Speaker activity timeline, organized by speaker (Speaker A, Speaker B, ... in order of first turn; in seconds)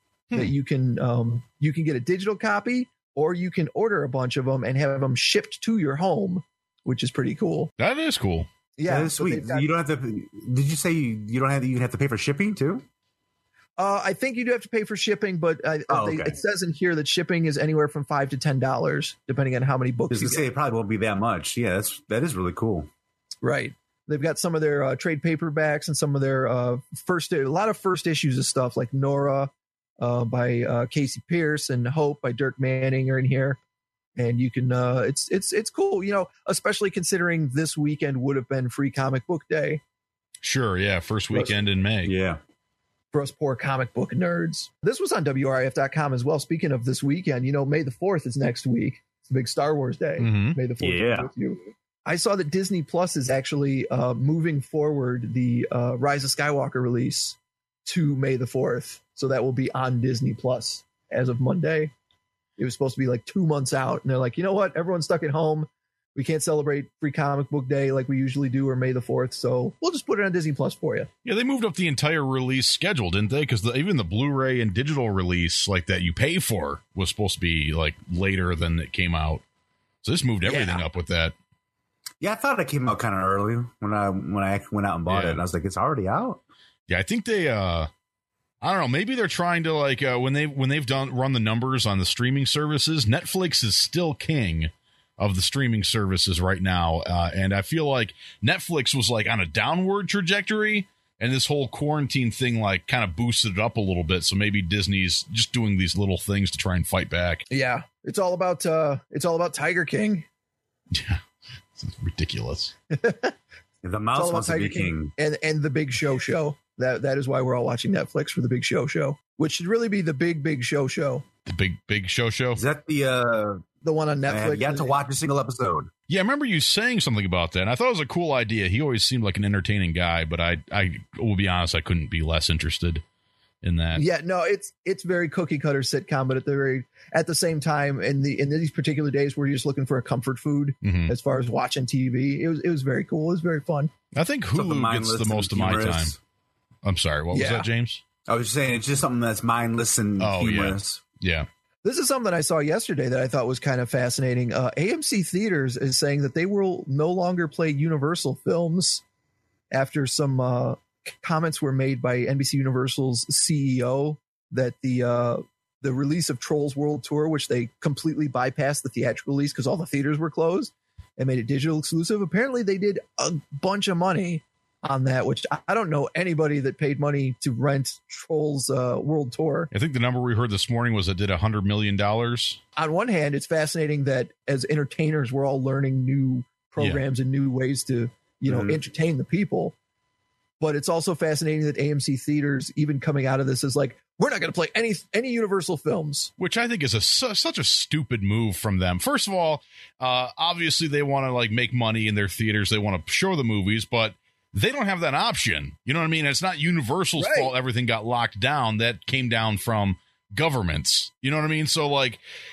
Speaker A: 0.3-7.7, 8.8-9.7, 13.8-20.4, 23.4-33.6, 34.1-39.8, 43.1-61.9, 62.6-71.1, 80.4-80.8, 107.5-110.2, 112.9-113.3, 114.1-121.2, 123.8-125.0, 133.9-143.9, 147.3-147.7, 151.8-159.0, 159.7-179.7, 182.8-189.7, 190.6-196.3, 207.2-207.5
Speaker B: 7.8-8.5, 40.4-42.1, 50.2-50.6, 71.2-79.4, 80.0-81.3, 85.1-85.4, 86.9-87.9, 88.6-107.5, 110.9-111.2, 111.8-112.7, 121.5-122.6, 126.1-133.0, 133.6-134.0, 140.8-141.1, 144.1-146.1, 146.8-148.0, 150.2-151.5, 179.7-182.6, 196.4-212.2
Speaker C: 8.9-12.8, 15.9-16.4, 20.1-22.9, 42.0-42.4, 50.8-51.3, 82.2-86.4, 113.8-115.1, 122.5-123.6, 124.3-125.9, 144.5-146.2, 148.3-151.0, 188.4-188.8